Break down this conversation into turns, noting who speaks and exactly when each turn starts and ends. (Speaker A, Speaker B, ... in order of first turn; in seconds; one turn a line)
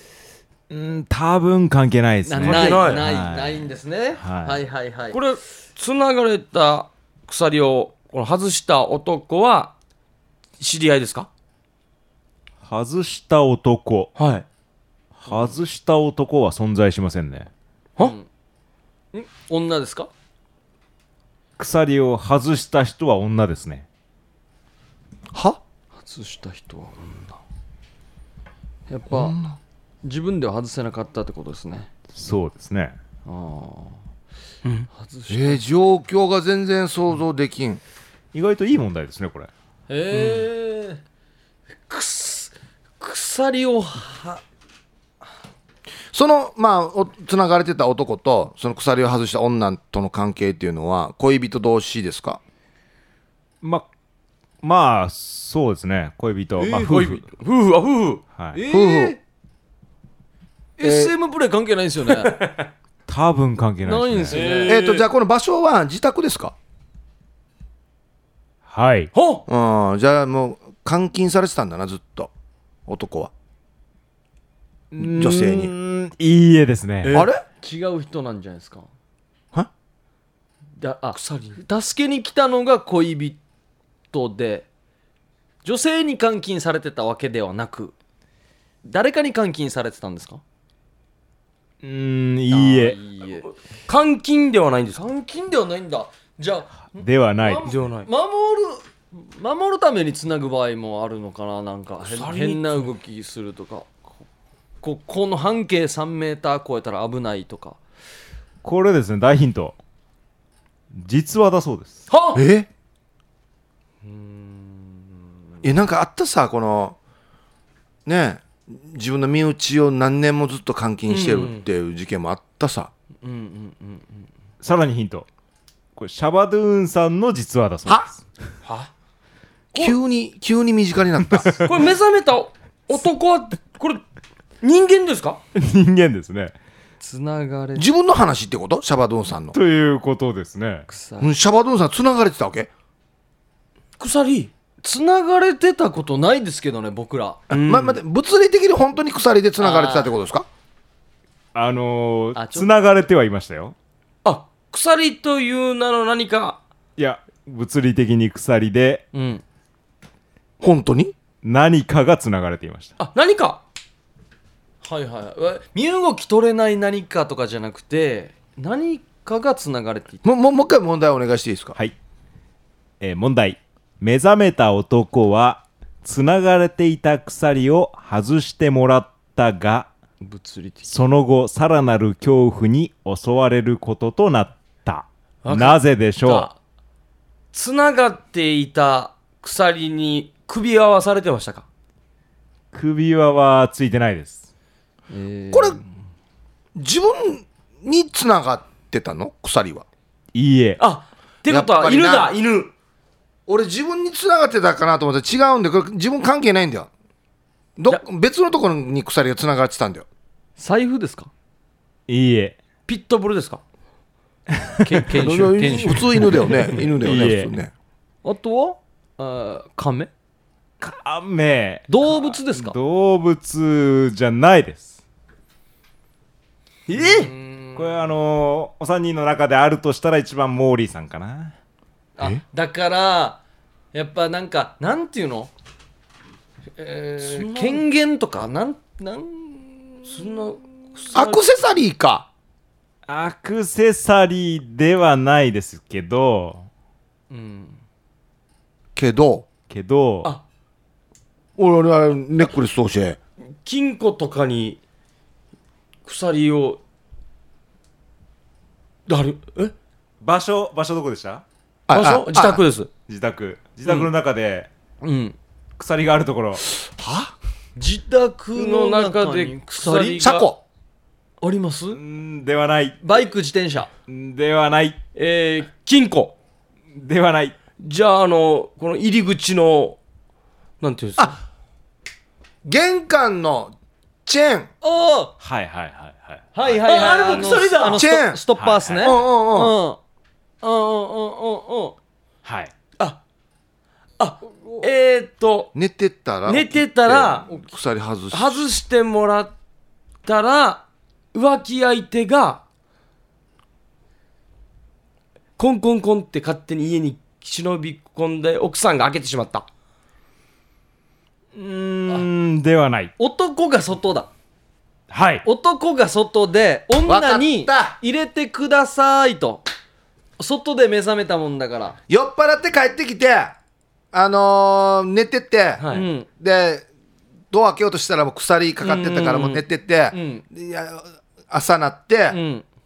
Speaker A: 0.7-3.7
Speaker B: 2.2-5.2
Speaker C: 2.4-3.0
Speaker A: 4.2-4.6
Speaker C: 5.1-9.7
Speaker C: 10.6-11.3
Speaker A: 12.6-14.1
Speaker C: 14.2-14.4
Speaker A: 15.2-17.5
Speaker B: 18.0-18.3
Speaker B: 19.1-20.1
Speaker A: 21.6-23.9
Speaker D: 25.3-25.6
Speaker B: 26.0-27.4
Speaker B: 28.9-29.4
Speaker D: 29.1-29.6
Speaker B: 30.0-31.9
Speaker A: 32.1-33.0
Speaker B: 33.2-34.0
Speaker B: 34.9-35.6
Speaker D: 35.3-37.8
Speaker A: 38.3-39.5
Speaker B: 39.9-41.0
Speaker B: 41.9-44.4
Speaker D: 46.1-52.4
Speaker A: 53.6-53.9
Speaker A: 54.6-57.2
Speaker B: 56.6-57.0
Speaker C: 56.8-58.2
Speaker B: 58.5-59.2
Speaker D: 58.7-59.2
Speaker B: 60.8-62.4
Speaker D: 60.8-61.1
Speaker C: 62.2-62.7
Speaker A: 63.1-64.4
Speaker B: 63.8-64.8
Speaker C: 64.3-65.0
Speaker D: 64.7-66.5
Speaker A: 68.7-69.1
Speaker C: 69.1-69.4
Speaker D: 69.5-72.3
Speaker D: 72.9-73.3
Speaker A: 74.9-77.1
Speaker D: 75.0-75.7
Speaker B: 77.1-78.8
Speaker D: 77.1-77.4
Speaker B: 80.8-83.4
Speaker C: 81.1-81.6
Speaker B: 84.1-84.7
Speaker B: 85.6-87.9
Speaker B: 88.8-90.4
Speaker A: 91.8-93.0
Speaker B: 92.5-93.5
Speaker C: 93.5-95.0
Speaker B: 95.0-104.0
Speaker A: 97.0-97.7
Speaker C: 97.7-98.1
Speaker C: 102.0-102.9
Speaker B: 104.8-107.8
Speaker A: 108.6-109.8
Speaker A: 110.9-112.0
Speaker C: 112.1-112.4
Speaker D: 112.3-112.7
Speaker D: 115.6-117.0
Speaker D: 118.0-122.9
Speaker C: 121.1-121.7
Speaker B: 123.2-124.1
Speaker A: 124.6-125.3
Speaker A: 126.0-128.2
Speaker D: 129.7-131.6
Speaker C: 131.6-134.0
Speaker C: 134.6-135.4
Speaker A: 135.5-136.5
Speaker B: 137.0-137.9
Speaker D: 137.8-139.6
Speaker A: 139.5-140.8
Speaker B: 140.9-141.3
Speaker D: 141.2-142.7
Speaker C: 144.0-144.5
Speaker B: 144.8-147.4
Speaker C: 147.5-148.0
Speaker D: 147.5-150.5
Speaker B: 149.6-150.0
Speaker A: 151.5-153.7
Speaker B: 152.3-152.7
Speaker C: 154.2-156.6
Speaker A: 157.0-159.1
Speaker B: 159.1-159.4
Speaker D: 160.6-161.1
Speaker A: 161.4-162.9
Speaker C: 163.0-163.6
Speaker B: 164.8-170.2
Speaker D: 170.2-171.8
Speaker A: 173.0-179.9
Speaker B: 180.2-180.9
Speaker A: 180.8-186.5
Speaker C: 185.4-186.5
Speaker C: 187.5-191.6
Speaker A: 192.7-194.4
Speaker B: 195.1-195.8
Speaker D: 195.5-195.8
Speaker D: 196.8-199.8
Speaker A: 200.3-200.8
Speaker C: 200.8-202.7
Speaker D: 201.5-202.3
Speaker D: 203.5-206.9
Speaker D: 207.8-210.1
Speaker B: 210.6-211.3
Speaker A: 212.1-212.6
Speaker C: 212.9-213.6
Speaker A: 214.6-215.0
Speaker B: 214.8-216.4
Speaker D: 215.2-217.7
Speaker A: 217.0-217.5
Speaker B: 218.2-220.1
Speaker A: 220.8-224.9
Speaker B: 221.9-222.8
Speaker C: 226.9-227.3
Speaker B: 227.0-227.9
Speaker A: 227.7-231.5
Speaker B: 232.2-233.4
Speaker B: 233.9-235.5
Speaker B: 236.8-240.1
Speaker C: 237.2-237.8
Speaker C: 240.1-241.4
Speaker D: 241.1-242.3
Speaker A: 243.1-246.7
Speaker B: 247.3-247.8
Speaker D: 248.9-249.5
Speaker A: 249.7-250.3
Speaker D: 251.6-253.2
Speaker C: 253.6-254.8
Speaker C: 256.0-256.8
Speaker C: 259.1-259.7
Speaker A: 260.2-261.4
Speaker D: 261.9-262.6
Speaker C: 261.9-262.9
Speaker A: 263.1-264.7
Speaker B: 265.0-265.4
Speaker A: 265.8-266.6
Speaker D: 266.8-267.3
Speaker B: 267.8-270.3
Speaker C: 268.6-270.5
Speaker D: 270.2-270.6
Speaker B: 271.4-272.0
Speaker A: 271.9-273.0
Speaker B: 273.0-273.9
Speaker A: 274.1-275.0
Speaker C: 275.1-276.3
Speaker A: 276.9-277.6
Speaker C: 277.8-280.0
Speaker C: 280.8-281.4
Speaker D: 282.6-283.7
Speaker D: 284.2-284.7
Speaker B: 284.8-285.3
Speaker A: 285.4-287.5
Speaker B: 286.5-290.0
Speaker C: 286.8-288.0
Speaker D: 287.9-288.4
Speaker A: 288.6-289.1
Speaker D: 289.0-289.7
Speaker B: 290.6-291.9
Speaker A: 292.4-292.7
Speaker C: 294.2-295.7
Speaker B: 294.6-294.9
Speaker D: 295.7-298.7
Speaker C: 296.4-297.6
Speaker C: 298.3-299.5
Speaker C: 300.2-302.6
Speaker C: 305.6-309.6
Speaker A: 311.5-313.1
Speaker B: 313.2-314.3
Speaker A: 315.1-315.4
Speaker B: 315.4-319.6
Speaker D: 317.0-318.0
Speaker B: 320.4-322.0
Speaker D: 322.1-323.5
Speaker D: 324.1-326.9
Speaker C: 325.8-326.1
Speaker B: 325.9-326.3
Speaker D: 327.5-332.4
Speaker B: 328.8-330.4
Speaker B: 332.3-332.6